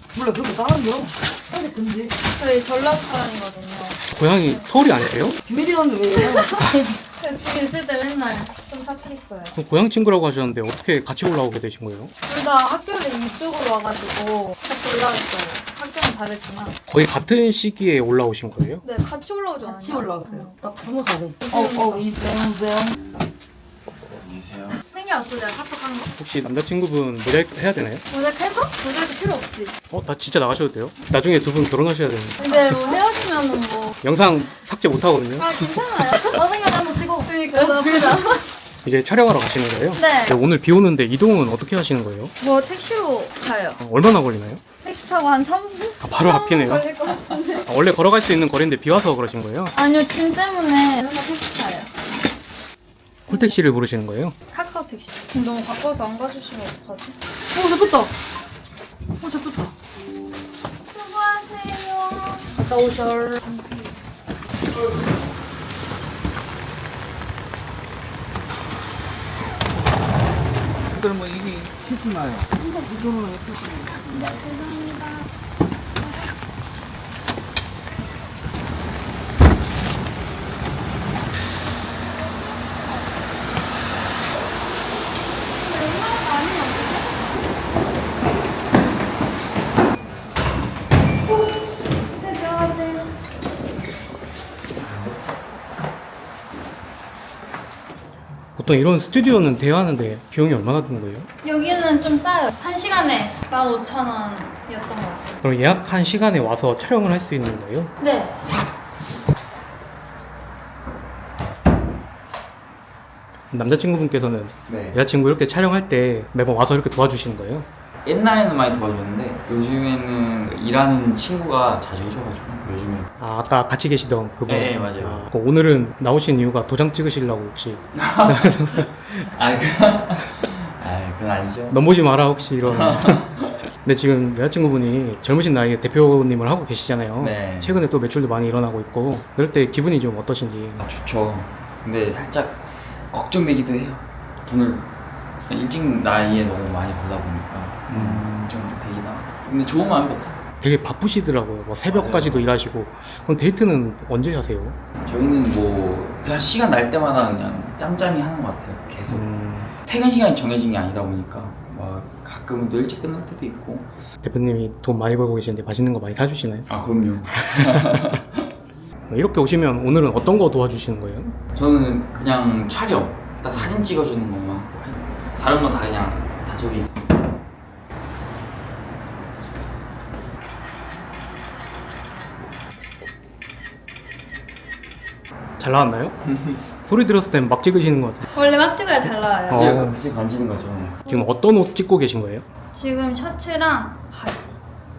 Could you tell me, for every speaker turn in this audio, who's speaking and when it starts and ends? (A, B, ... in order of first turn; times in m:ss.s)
0:00.1-0:02.2 A
0:02.3-0:04.6 B
0:04.1-0:05.4 C
0:05.4-0:07.0 A
0:06.2-0:09.6 B
0:09.6-0:12.1 C
0:12.2-0:16.8 B
0:16.9-0:18.8 C
0:18.8-0:20.6 B
0:19.6-0:23.0 A
0:21.4-0:22.1 B
0:24.1-0:24.8 D
0:24.9-0:26.1 B
0:26.2-0:28.0 C
0:28.1-0:29.8 B
0:29.9-0:32.7 C
0:32.4-0:34.0 B
0:34.0-0:35.6 C
0:35.4-0:36.4 B
0:36.3-0:38.4 A
0:37.2-0:38.5 B
0:38.8-0:42.3 C
0:40.0-0:40.4 B
0:42.4-0:43.8 B
0:43.8-0:44.6 C
0:44.8-0:47.7 B
0:46.0-0:46.9 C
0:47.7-0:49.7 C
0:49.7-0:51.9 B
0:53.3-0:53.6 B
0:53.3-0:54.4 C
0:54.5-0:57.2 B
0:57.5-0:58.1 A
0:59.2-0:59.7 A
1:00.9-1:02.5 B
1:02.6-1:03.4 A
1:03.4-1:03.9 B
1:12.5-1:14.2 A
1:14.1-1:15.3 B
1:25.5-1:27.3 B
1:32.0-1:33.2 B
1:38.6-1:41.3 C
1:41.4-1:45.4 B
1:45.4-1:47.9 C
1:48.0-1:48.4 B
1:53.5-1:57.7 C
1:54.7-1:55.0 D
1:58.0-2:03.1 D
2:03.2-2:09.3 C
2:04.5-2:05.3 D
2:08.0-2:11.8 D
2:11.7-2:13.2 C
2:12.6-2:13.5 D
2:13.8-2:20.8 C
2:17.2-2:17.8 D
2:20.8-2:24.9 D
2:25.5-2:30.4 D
2:27.9-2:28.3 C
2:30.6-2:34.8 C
2:31.9-2:32.5 D
2:35.0-2:39.3 D
2:39.1-2:39.7 C
2:39.8-2:43.9 D
2:44.2-2:46.7 C
2:46.7-2:48.5 D
2:47.3-2:48.2 C
2:49.1-2:51.4 C
2:51.6-2:57.2 D
3:05.6-3:06.2 C
3:06.2-3:06.6 D
3:06.8-3:08.2 C
3:08.3-3:09.8 B
3:09.5-3:10.0 C
3:09.5-3:11.0 D
3:11.1-3:12.4 C
3:12.7-3:14.6 B